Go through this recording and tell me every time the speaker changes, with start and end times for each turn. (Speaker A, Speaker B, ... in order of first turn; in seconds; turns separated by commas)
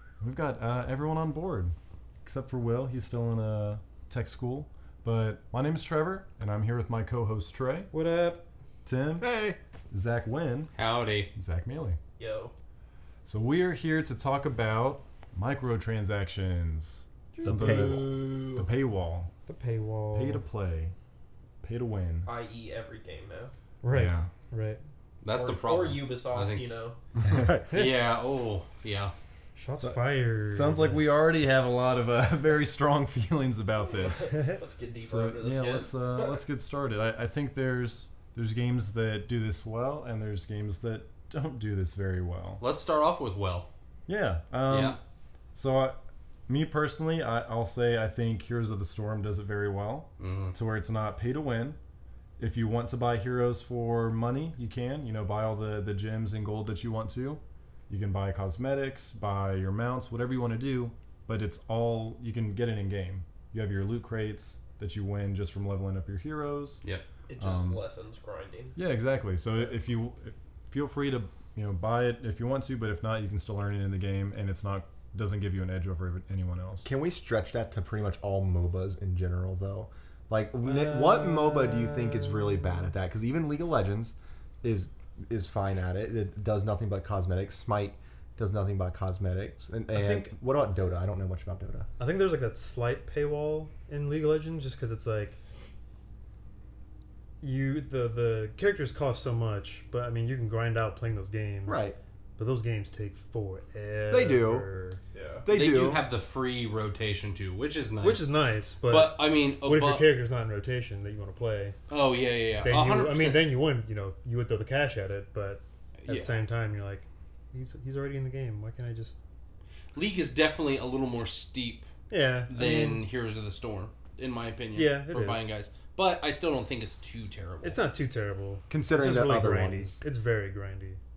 Speaker A: 0.2-7.9, Speaker B: 7.9-8.4, Speaker A: 8.8-9.3, Speaker C: 9.2-9.6, Speaker A: 9.9-10.7, Speaker D: 10.8-11.3, Speaker A: 11.3-12.0, Speaker E: 12.2-12.5, Speaker A: 13.2-19.3, Speaker E: 17.3-18.7, Speaker C: 17.4-18.1, Speaker B: 19.4-20.4, Speaker A: 20.1-20.9, Speaker A: 21.6-22.3, Speaker E: 22.2-23.5, Speaker B: 23.8-24.8, Speaker A: 23.9-24.3, Speaker D: 25.2-26.7, Speaker E: 25.3-27.0, Speaker C: 27.2-27.9, Speaker D: 27.7-29.1, Speaker B: 29.6-31.0, Speaker A: 29.8-34.4, Speaker E: 33.9-36.4, Speaker B: 34.3-34.6, Speaker A: 35.0-42.6, Speaker D: 42.6-43.7, Speaker A: 44.1-45.0, Speaker D: 44.7-45.0, Speaker A: 45.5-51.8, Speaker D: 50.2-50.5, Speaker A: 52.4-66.8, Speaker E: 67.3-68.8, Speaker A: 67.4-67.8, Speaker A: 68.8-76.9, Speaker C: 76.8-91.9, Speaker B: 80.6-82.9, Speaker B: 89.9-90.3, Speaker B: 92.0-95.4, Speaker B: 97.4-101.8, Speaker C: 101.7-102.0, Speaker B: 102.4-105.0, Speaker C: 104.1-104.7, Speaker E: 105.1-105.5, Speaker C: 105.4-106.1, Speaker D: 105.5-110.1, Speaker B: 108.0-111.8, Speaker D: 111.9-113.5, Speaker B: 112.6-119.2, Speaker D: 116.0-116.3, Speaker D: 119.9-121.9, Speaker B: 122.1-123.0, Speaker D: 122.5-127.8, Speaker B: 124.7-125.5, Speaker B: 127.6-131.0, Speaker C: 128.7-130.0